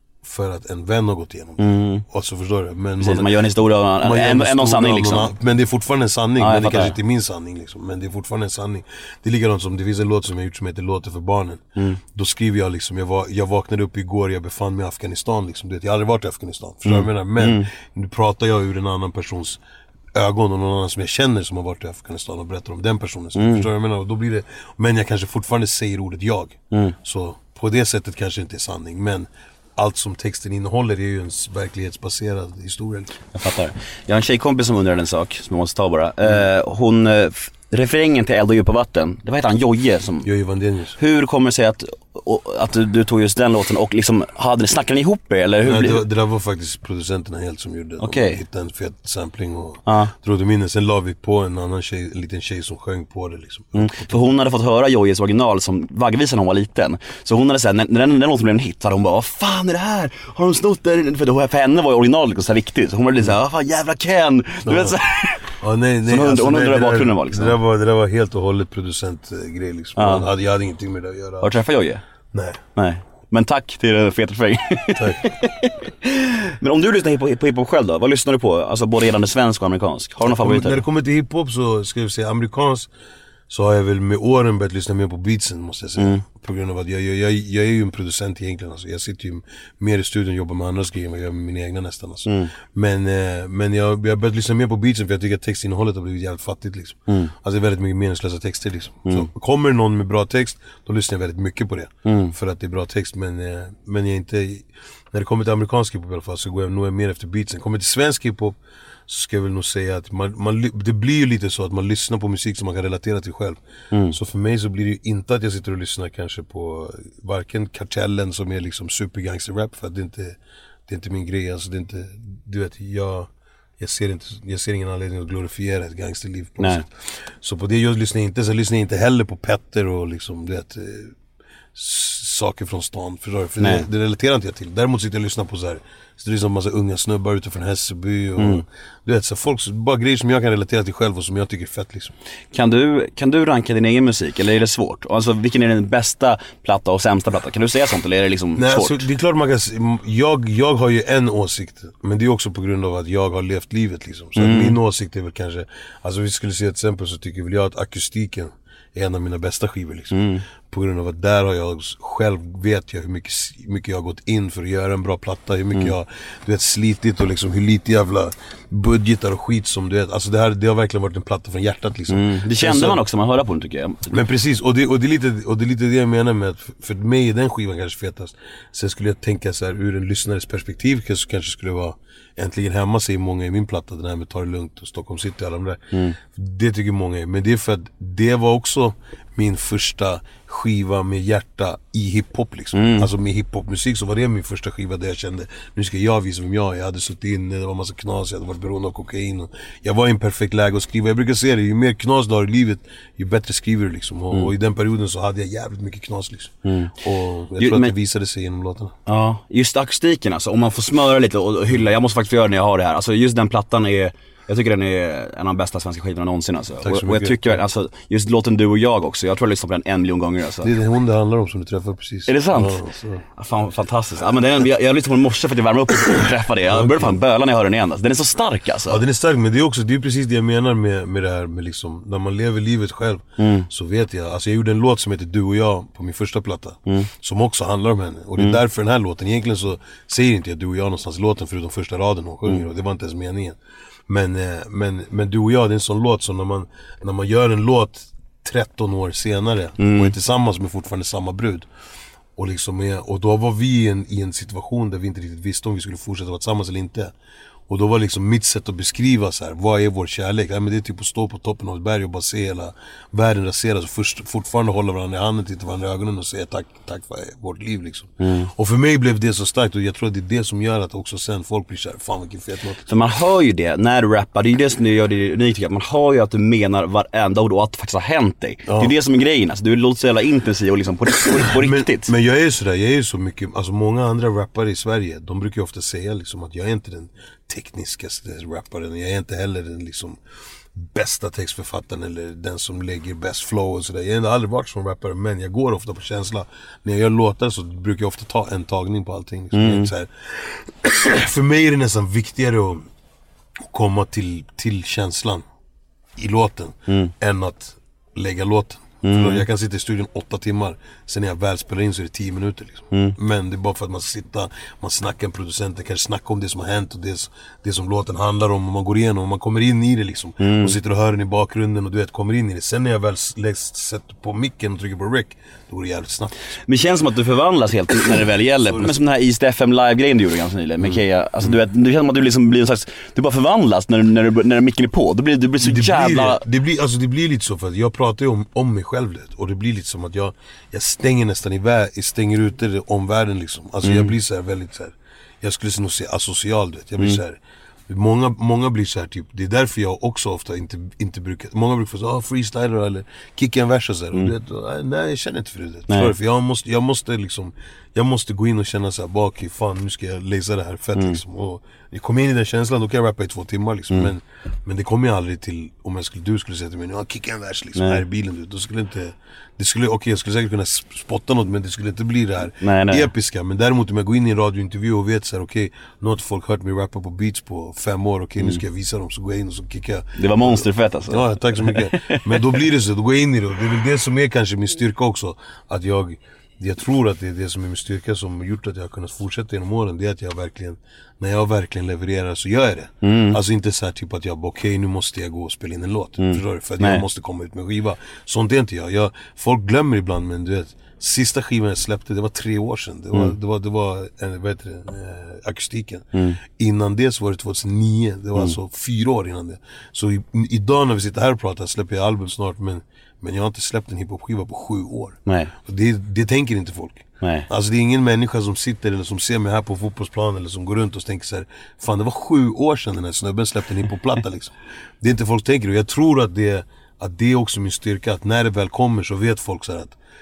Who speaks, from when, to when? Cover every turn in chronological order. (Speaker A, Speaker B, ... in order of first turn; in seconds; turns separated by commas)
Speaker A: 0.2-3.4, Speaker B: 1.6-2.0, Speaker B: 3.0-5.3, Speaker A: 4.0-19.6, Speaker B: 6.4-7.0, Speaker B: 16.9-17.7, Speaker A: 20.1-33.2, Speaker B: 23.4-23.7, Speaker B: 26.7-27.0, Speaker B: 33.4-40.3, Speaker A: 40.2-41.0, Speaker B: 41.0-46.0, Speaker A: 45.6-54.2, Speaker B: 48.0-48.4, Speaker B: 49.9-50.1, Speaker B: 53.8-65.5, Speaker A: 64.7-65.0, Speaker A: 65.6-71.6, Speaker B: 66.1-67.6, Speaker B: 70.0-70.3, Speaker B: 71.4-72.0, Speaker A: 72.3-72.6, Speaker B: 72.8-80.8, Speaker A: 75.0-75.2, Speaker A: 80.2-82.9, Speaker A: 83.5-108.6, Speaker B: 86.0-86.2, Speaker B: 92.3-92.5, Speaker B: 102.0-102.3, Speaker A: 109.1-113.6, Speaker B: 113.9-114.2, Speaker A: 114.1-131.2, Speaker A: 131.8-142.2, Speaker B: 133.6-133.9, Speaker B: 138.4-138.7, Speaker B: 142.5-149.1, Speaker A: 148.6-173.0, Speaker B: 154.4-154.8, Speaker B: 160.1-160.4, Speaker B: 172.1-174.2, Speaker A: 174.1-208.9, Speaker B: 185.9-186.2, Speaker B: 192.8-193.1, Speaker B: 206.7-206.9, Speaker B: 207.6-207.9, Speaker B: 209.1-220.7, Speaker A: 216.8-217.6, Speaker A: 220.6-223.2, Speaker B: 222.3-222.8, Speaker B: 223.4-229.0, Speaker A: 226.7-227.2, Speaker A: 228.9-251.7, Speaker B: 233.4-233.7, Speaker B: 249.8-250.1, Speaker A: 252.4-257.1, Speaker A: 257.7-272.9, Speaker B: 268.2-268.5, Speaker B: 272.9-282.1, Speaker A: 278.7-278.9, Speaker A: 281.2-290.2, Speaker A: 290.8-302.9, Speaker B: 299.5-299.9, Speaker A: 303.6-305.4, Speaker A: 306.2-326.6, Speaker B: 309.0-309.4, Speaker B: 312.9-313.2, Speaker B: 320.4-320.8, Speaker B: 326.7-336.4, Speaker A: 328.7-329.0, Speaker A: 335.6-430.0, Speaker B: 343.8-344.1, Speaker B: 355.9-356.1, Speaker B: 367.8-368.0, Speaker B: 372.6-373.1, Speaker B: 380.2-382.6, Speaker B: 393.0-393.4, Speaker B: 396.2-397.1, Speaker B: 415.3-415.5, Speaker B: 417.2-417.5